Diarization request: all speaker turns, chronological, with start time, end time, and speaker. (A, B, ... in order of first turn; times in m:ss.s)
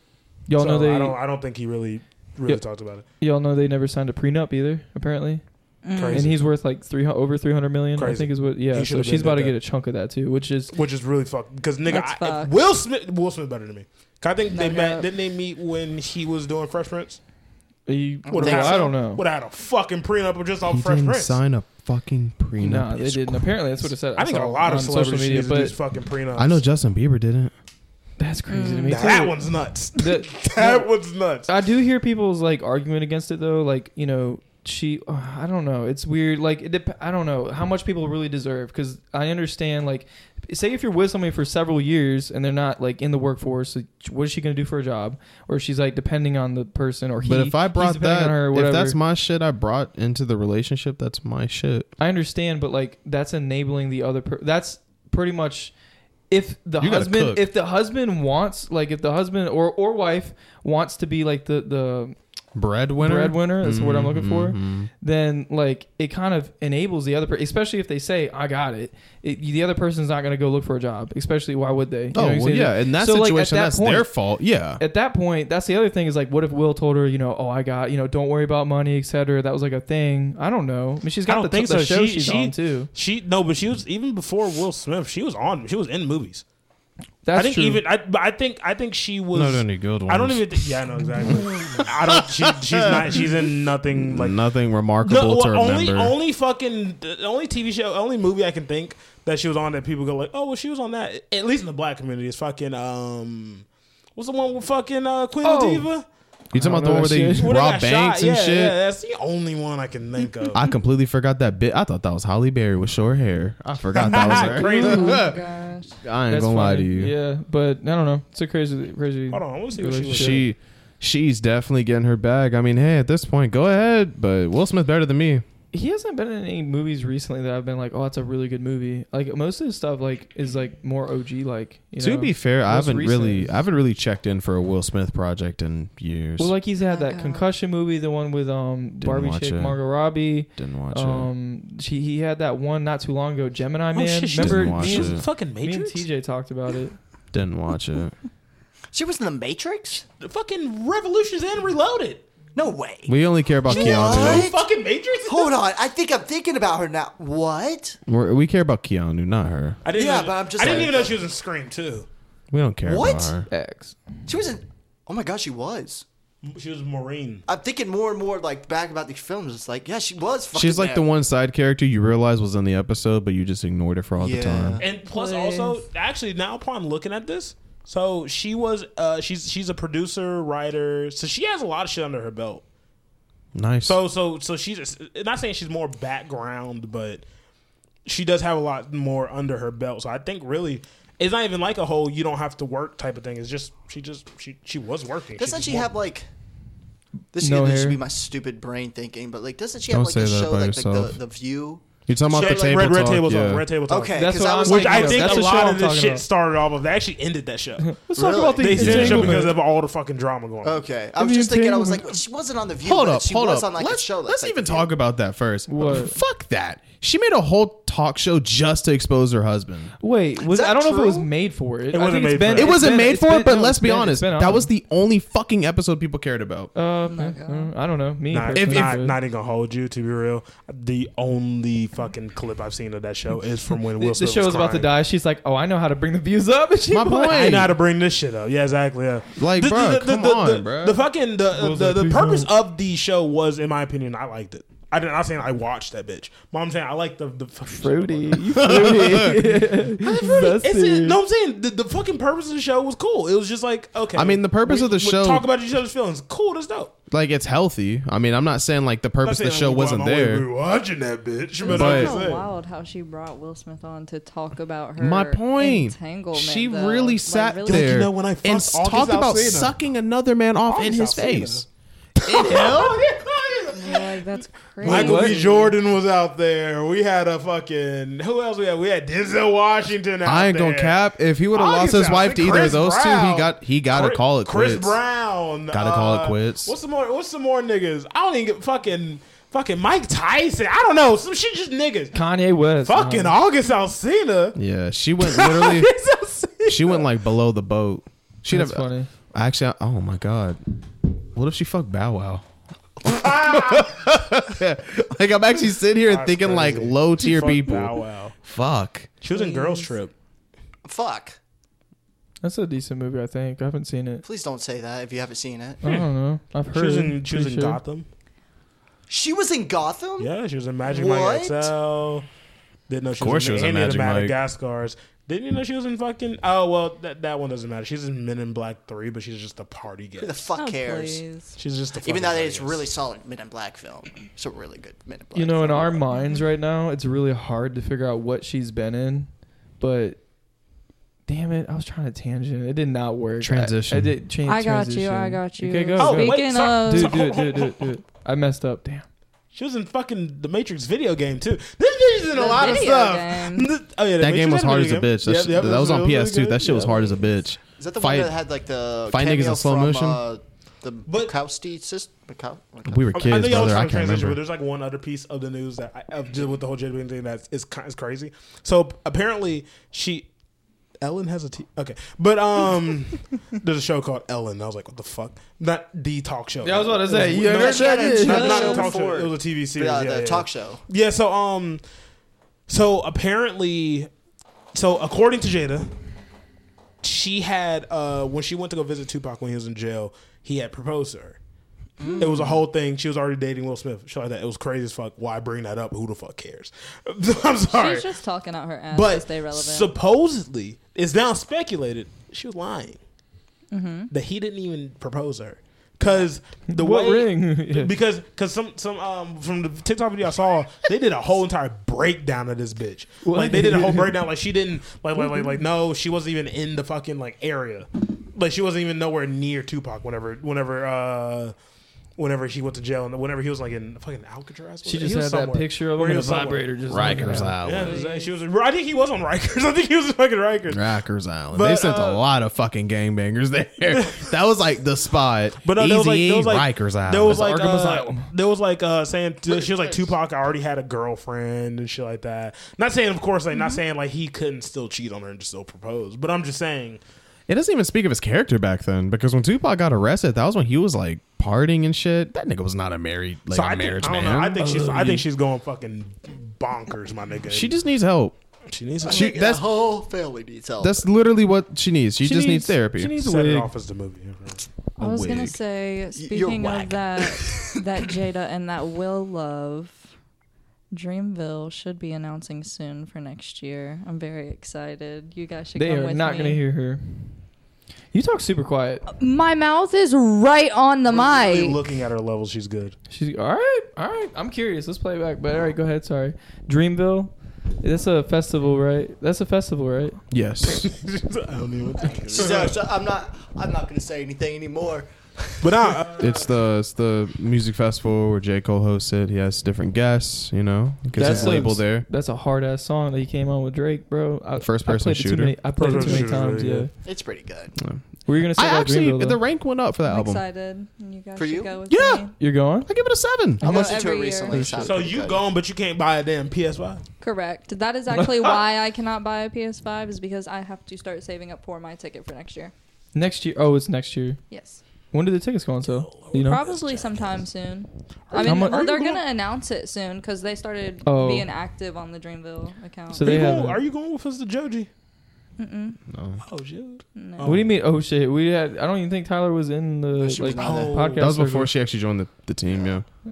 0:00.5-0:01.2 A
0:00.6-0:03.0 B
0:03.2-0:05.4 A
0:05.8-0:06.3 C
0:05.9-0:06.4 B
0:06.1-0:10.7 A
0:08.0-0:09.6 B
0:10.7-0:17.2 B
0:11.8-0:12.6 C
0:14.5-0:15.1 C
0:17.9-0:19.2 A
0:18.3-0:18.9 D
0:18.3-0:21.4 B
0:20.6-0:23.5 E
0:22.6-0:25.7 A
0:24.1-0:26.6 B
0:26.3-0:27.5 E
0:28.2-0:30.9 A
0:28.5-0:29.2 C
0:28.9-0:31.5 B
0:31.4-0:49.0 A
0:47.2-0:51.9 E
0:52.0-0:55.7 A
0:56.3-1:02.2 A
0:56.8-0:57.5 E
1:02.5-1:04.9 E
1:03.0-1:14.1 A
1:12.1-1:14.8 E
1:14.8-1:22.9 A
1:21.2-1:26.4 B
1:27.2-1:27.8 A
1:27.3-1:34.4 B
1:29.3-1:36.2 E
1:35.0-1:46.0 B
1:45.4-1:45.9 A
1:46.5-1:48.8 E
1:46.5-1:47.6 A
1:47.4-1:50.7 B
1:50.5-1:55.4 E
1:53.9-1:55.2 B
1:54.2-1:55.2 A
1:54.6-1:56.0 C
1:56.0-1:57.1 E
1:56.3-2:00.5 A
1:59.3-2:00.5 B
2:00.1-2:05.4 E
2:05.7-2:13.6 A
2:12.0-2:16.5 E
2:16.4-2:27.0 A
2:16.9-2:17.4 C
2:19.0-2:19.8 E
2:20.5-2:21.3 E
2:23.9-2:26.0 B
2:24.3-2:25.2 E
2:27.3-2:28.1 E
2:28.9-2:30.0 D
2:30.2-2:32.2 B
2:32.5-2:34.6 D
2:33.1-2:34.5 E
2:33.7-2:35.5 B
2:35.2-2:38.0 D
2:38.1-2:39.8 E
2:39.8-2:42.1 B
2:39.9-2:41.2 D
2:42.5-2:43.5 E
2:42.8-2:43.4 D
2:43.5-2:44.0 A
2:44.3-2:46.0 D
2:46.4-2:47.4 B
2:47.5-2:51.0 D
2:50.5-2:54.8 E
2:54.2-2:54.8 D
2:54.8-3:02.6 B
2:55.0-2:55.8 C
3:03.5-3:04.0 E
3:03.8-3:07.2 B
3:08.0-3:15.9 B
3:15.4-3:16.3 D
3:17.3-3:23.1 D
3:17.4-3:18.0 A
3:19.9-3:21.1 E
3:22.1-3:23.7 E
3:22.3-3:30.9 B
3:23.9-3:25.6 D
3:24.1-3:26.2 A
3:27.8-3:29.6 A
3:28.2-3:28.9 D
3:28.7-3:29.5 E
3:30.6-3:34.9 D
3:31.2-3:32.2 A
3:32.8-3:39.9 E
3:35.7-3:36.2 A
3:40.0-3:44.7 A
3:40.4-3:41.3 D
3:41.9-3:42.9 B
3:42.5-3:46.7 E
3:46.7-3:49.2 A
3:47.0-3:47.7 C
3:48.3-3:54.9 B
3:48.5-3:49.0 E
3:54.0-3:57.7 A
3:56.9-3:57.7 E
3:57.3-4:16.9 B
3:59.4-4:01.0 E
4:01.5-4:02.5 A
4:07.7-4:11.2 A
4:08.5-4:09.4 E
4:14.1-4:15.5 E
4:17.1-4:20.5 E
4:19.2-4:22.4 B
4:21.6-4:28.0 C
4:21.7-4:22.1 E
4:25.0-4:31.6 E
4:27.6-4:29.8 B
4:30.7-4:31.6 B
4:32.2-4:41.0 B
4:32.3-4:33.0 E
4:33.7-4:35.7 C
4:34.8-4:35.5 A
4:40.2-4:45.0 E
4:41.5-4:52.1 B
4:45.7-4:46.7 E
4:52.1-4:53.3 A
4:52.8-4:54.6 B
4:54.6-4:55.9 E
4:55.2-4:57.1 B
4:56.6-5:00.6 E
4:58.5-4:59.1 A
5:01.3-5:02.4 E
5:03.0-5:09.1 E
5:03.0-5:04.0 B
5:06.0-5:08.4 B
5:09.2-5:10.1 B
5:09.3-5:09.9 C
5:10.8-5:11.4 D
5:12.4-5:14.2 A
5:14.2-5:15.8 D
5:15.8-5:17.8 A
5:16.7-5:18.1 B
5:19.1-5:20.3 D
5:20.2-5:22.2 B
5:20.8-5:21.7 D
5:22.9-5:30.4 B
5:23.2-5:24.4 E
5:30.2-5:31.2 D
5:30.6-5:31.5 C
5:31.6-5:32.8 B
5:32.0-5:36.0 D
5:35.3-5:40.2 A
5:36.1-5:36.4 C
5:41.3-5:49.0 A
5:43.4-5:44.2 E
5:44.4-5:47.2 C
5:46.0-5:47.9 B
5:49.5-5:57.2 B
5:52.3-5:53.7 C
5:54.2-5:58.3 E
5:57.8-6:03.7 D
5:59.1-6:00.2 E
6:01.1-6:01.3 B
6:02.9-6:04.4 E
6:03.1-6:10.3 B
6:11.0-6:21.8 B
6:16.6-6:18.8 A
6:17.3-6:20.8 D
6:18.3-6:18.9 C
6:22.7-6:24.1 B
6:24.7-6:25.9 B
6:27.0-6:31.4 B
6:32.0-6:32.6 D
6:32.2-6:38.1 B
6:37.7-6:39.9 C
6:38.9-6:43.0 B
6:43.7-6:44.1 C
6:44.1-7:01.5 B
6:46.0-6:46.3 C
6:46.7-6:47.9 A
6:53.2-6:54.2 A
7:02.2-7:10.9 B
7:04.8-7:07.6 A
7:06.9-7:08.0 E
7:07.6-7:08.3 C
7:10.7-7:18.1 E
7:11.5-7:12.2 B
7:13.9-7:14.3 B
7:15.6-7:27.0 B
7:17.3-7:18.2 A
7:19.5-7:20.0 E
7:23.5-7:23.8 C
7:27.5-7:35.1 E
7:33.5-7:37.8 B
7:34.6-7:35.2 A
7:37.5-7:38.4 E
7:38.7-7:39.4 B
7:39.0-7:39.6 E
7:39.0-7:41.1 D
7:40.8-7:43.1 E
7:42.2-7:43.7 A
7:42.5-7:44.6 B
7:45.0-7:50.0 C
7:45.0-7:45.6 E
7:46.2-7:48.0 D
7:50.9-7:56.6 C
7:55.8-7:57.4 A
7:58.1-7:59.0 A
7:59.1-8:01.8 C
8:01.0-8:03.0 B
8:03.1-8:10.2 A
8:10.3-8:10.9 E
8:10.7-8:12.8 B
8:12.3-8:15.9 D
8:15.6-8:16.5 B
8:16.2-8:22.0 E
8:21.1-8:26.9 A
8:21.2-8:21.7 D
8:24.6-8:26.2 E
8:25.8-8:26.9 B
8:27.0-8:27.8 D
8:27.8-8:30.4 E
8:28.2-8:29.4 A
8:30.0-8:32.3 C
8:31.4-8:31.8 D
8:31.9-8:32.3 E
8:32.4-8:32.9 A
8:32.8-8:33.7 E
8:33.6-8:34.7 C
8:33.6-8:35.4 D
8:34.5-8:35.0 A
8:34.8-8:37.0 B
8:37.2-8:42.7 C
8:43.1-8:44.4 A
8:44.5-8:44.8 C
8:45.1-8:46.6 A
8:45.8-8:47.4 B
8:46.3-8:53.6 C
8:48.3-8:49.2 B
8:48.4-8:48.8 A
8:51.0-8:51.5 A
8:53.1-8:53.8 A
8:53.2-8:54.9 B
8:55.6-8:56.0 C
8:56.1-8:56.4 E
8:56.4-8:57.7 B
8:57.1-8:57.5 C
8:57.4-9:01.7 A
9:00.2-9:01.0 D
9:00.5-9:01.3 B
9:01.2-9:03.0 E